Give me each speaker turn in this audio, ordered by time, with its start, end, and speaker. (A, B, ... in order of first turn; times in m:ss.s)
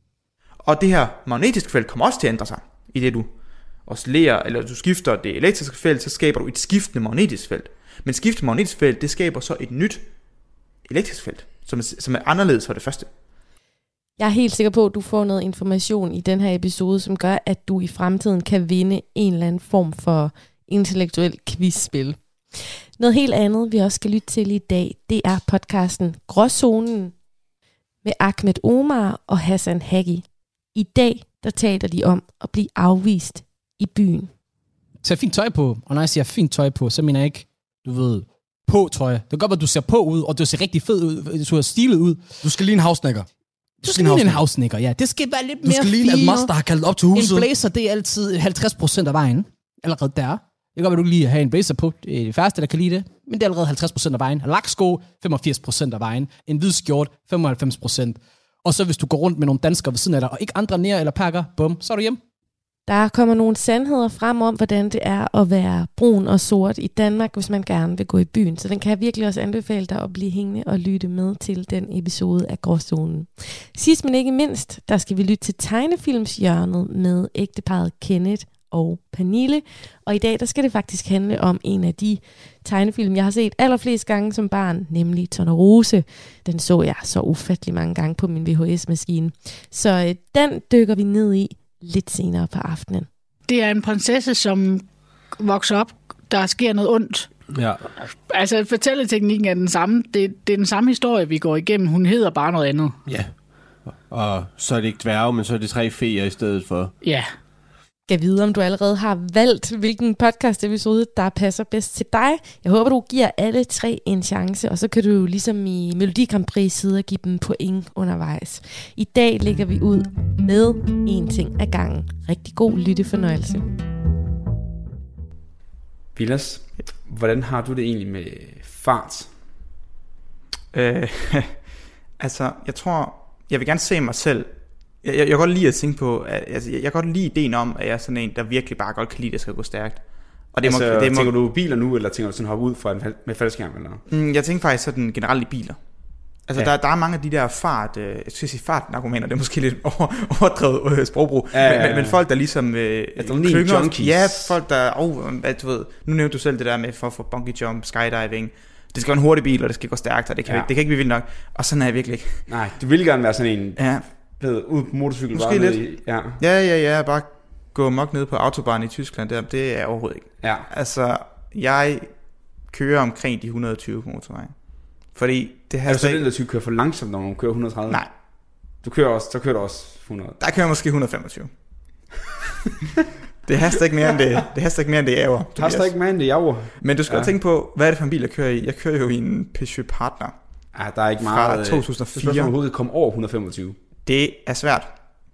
0:00.6-0:03.3 A
0:03.8-0:10.1 A
0:10.8-0:13.1 A
0:14.2-0:27.2 B
0:28.0-0:34.3 B
0:35.0-1:02.2 C
1:02.9-1:33.1 B
1:33.5-1:37.4 D
1:37.5-1:37.8 E
1:38.1-1:43.0 D
1:43.1-1:46.9 E
1:47.0-1:47.3 D
1:48.1-2:03.7 B
2:06.2-2:09.3 F
2:10.7-2:21.3 A
2:20.6-2:24.0 F
2:24.1-2:25.8 A
2:26.4-2:42.5 A
2:31.5-2:32.2 F
2:33.2-2:34.6 F
2:42.5-2:46.4 F
2:43.8-2:44.0 A
2:45.3-2:56.2 A
2:50.4-2:50.7 F
2:55.9-3:00.4 F
3:00.4-3:01.6 A
3:03.4-3:06.0 A
3:05.6-3:07.3 F
3:06.8-3:10.3 A
3:10.7-3:13.8 F
3:11.3-3:12.5 A
3:14.0-3:14.9 A